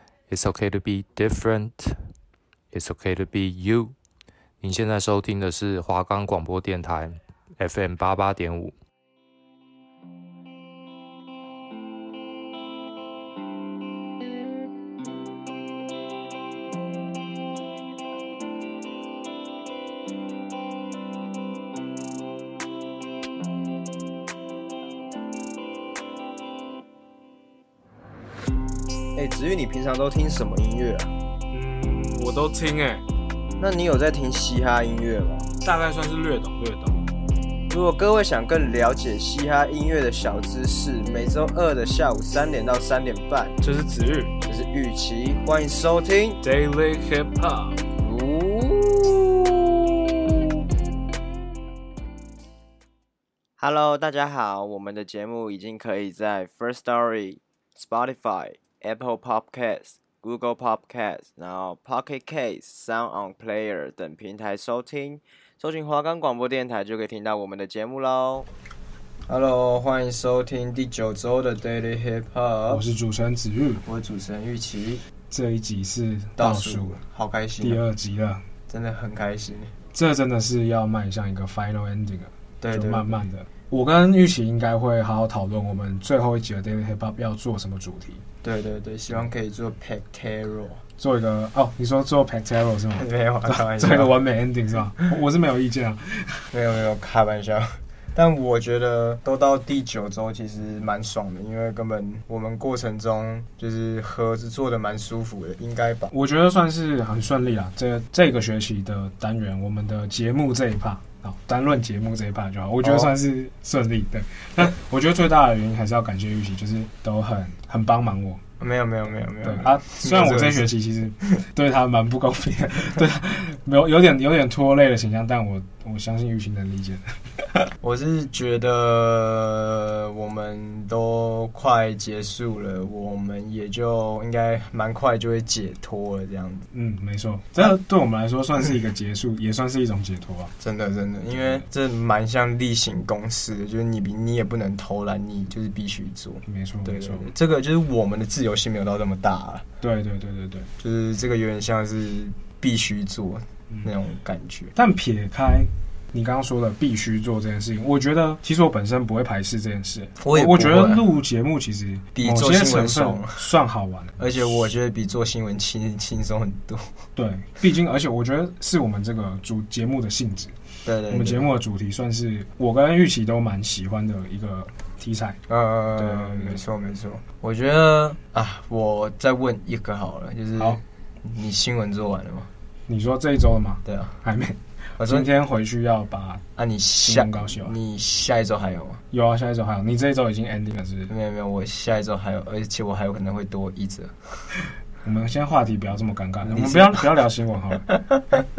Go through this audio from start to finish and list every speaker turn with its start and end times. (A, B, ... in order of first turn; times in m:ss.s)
0:00.3-0:02.1 A
0:02.7-0:04.0 A
0:04.6-0:08.8 A
0:29.2-0:31.1 B
0:31.5-0:33.0 C
0:33.6-0:35.5 B
0:35.6-0:37.0 C
0:37.7-0:43.6 B
0:43.6-0:44.3 C
0:44.5-0:46.4 B
0:46.4-0:47.8 C
0:48.0-0:49.4 B
0:53.6-1:08.5 B
1:09.3-1:12.8 B
1:12.7-1:13.8 C
1:13.8-1:15.0 B
1:15.3-1:17.0 C
1:16.4-1:17.8 B
1:17.6-1:18.4 C
1:18.7-1:19.7 B
1:19.9-1:28.2 C
1:22.6-1:23.1 B
1:28.4-1:30.8 B
1:31.0-1:36.4 C
1:33.0-1:34.1 B
1:36.5-1:46.1 B
1:46.1-1:58.4 C
1:52.8-1:53.1 B
1:58.6-2:00.7 B
1:59.4-2:07.0 C
2:07.8-2:16.7 B
2:16.7-2:20.5 C
2:20.6-2:29.6 B
2:26.5-2:27.3 C
2:29.8-2:30.7 C
2:30.8-2:34.7 B
2:34.8-2:44.6 C
2:40.2-2:41.0 B
2:42.2-2:43.4 B
2:44.2-2:46.8 B
2:47.2-2:50.6 C
2:50.8-2:51.5 B
2:51.1-2:55.4 C
2:55.5-3:02.5 B
2:56.0-2:56.6 C
3:02.9-3:06.5 C
3:03.8-3:04.1 B
3:05.0-3:05.3 B
3:06.6-3:09.0 B
3:07.0-3:07.8 C
3:09.1-3:11.1 C
3:11.1-3:14.1 B
3:15.0-3:17.9 C
3:16.4-3:17.1 B